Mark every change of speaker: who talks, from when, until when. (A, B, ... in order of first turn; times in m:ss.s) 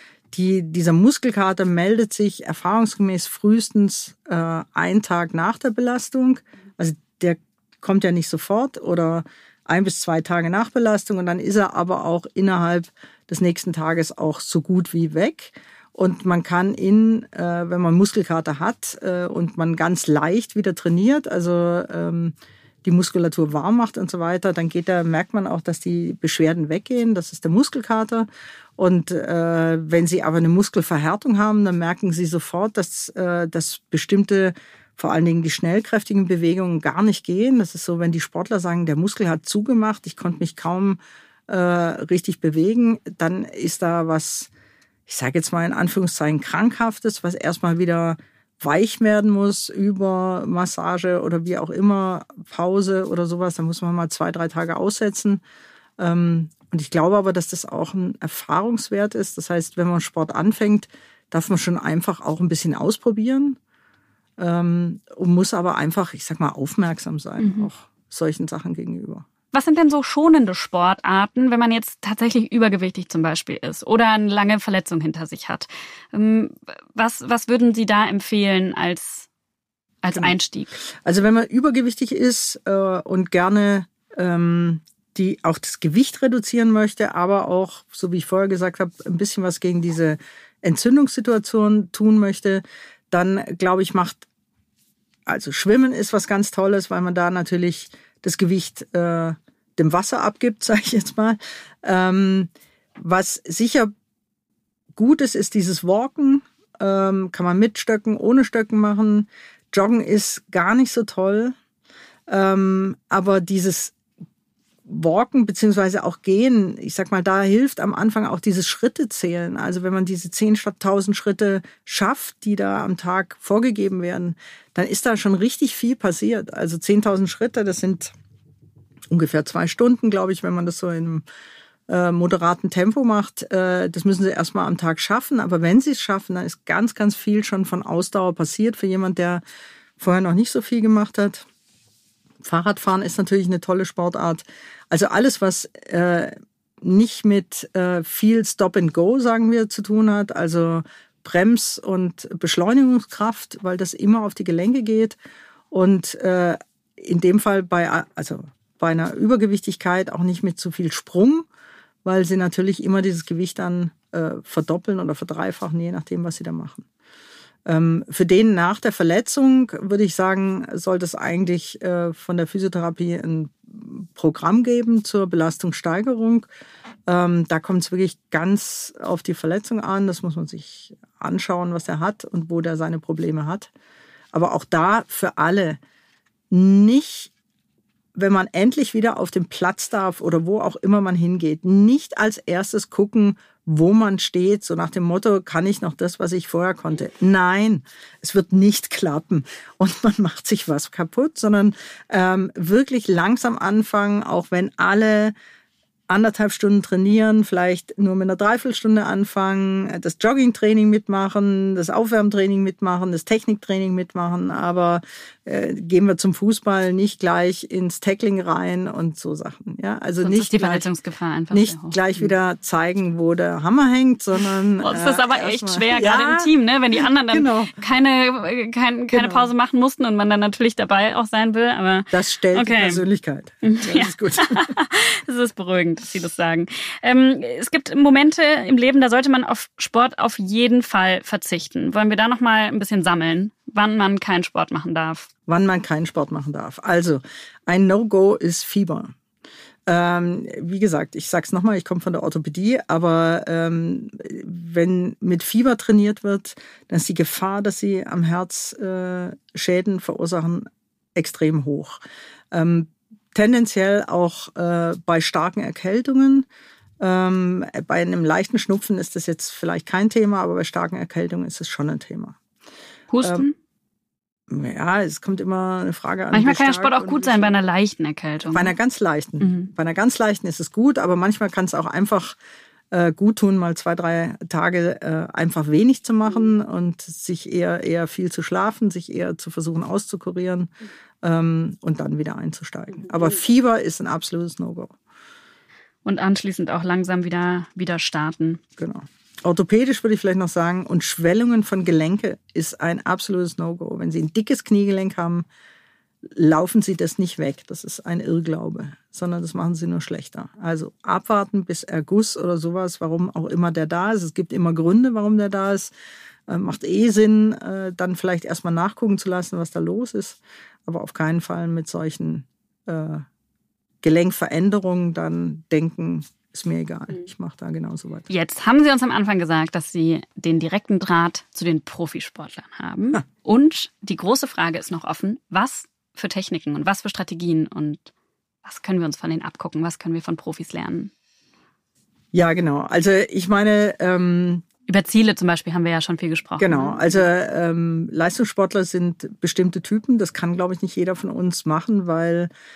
0:00.3-0:44.5 A
0:45.1-0:55.4 A
0:56.0-1:03.6 A
1:04.4-1:09.2 A
1:07.4-1:07.7 B
1:09.5-1:19.3 B
1:20.0-1:20.7 B
1:21.0-1:34.2 A
1:35.3-1:43.9 A
1:44.9-1:51.6 A
1:52.3-1:53.9 A
1:54.8-2:08.1 A
2:09.1-2:11.2 A
2:11.9-2:19.4 A
2:20.0-2:21.4 A
2:22.4-2:35.2 A
2:35.7-2:41.4 A
2:42.0-2:46.8 A
2:47.6-2:56.5 A
2:57.1-3:03.7 A
3:04.3-3:05.8 A
3:06.5-3:07.3 A
3:08.1-3:25.3 A
3:26.1-3:40.9 A
3:40.2-3:42.3 B
3:41.5-3:46.5 A
3:44.8-3:53.0 B
3:47.3-3:47.7 A
3:49.1-3:49.5 A
3:52.1-3:54.7 A
3:53.6-4:05.3 B
4:05.5-4:09.1 A
4:09.9-4:22.0 A
4:22.5-4:26.5 A
4:27.0-4:32.4 A
4:33.1-4:33.5 B
4:34.5-4:37.5 A
4:36.3-4:38.7 B
4:38.4-4:42.4 A
4:39.4-4:39.7 B
4:42.9-4:50.7 A
4:51.2-4:54.9 A
4:56.0-4:58.6 B
4:58.8-5:05.4 A
5:06.2-5:15.9 A
5:16.5-5:23.2 A
5:24.0-5:28.3 A
5:28.3-5:38.1 B
5:38.6-5:41.1 B
5:42.3-5:44.6 A
5:44.9-5:47.2 B
5:46.6-5:52.5 A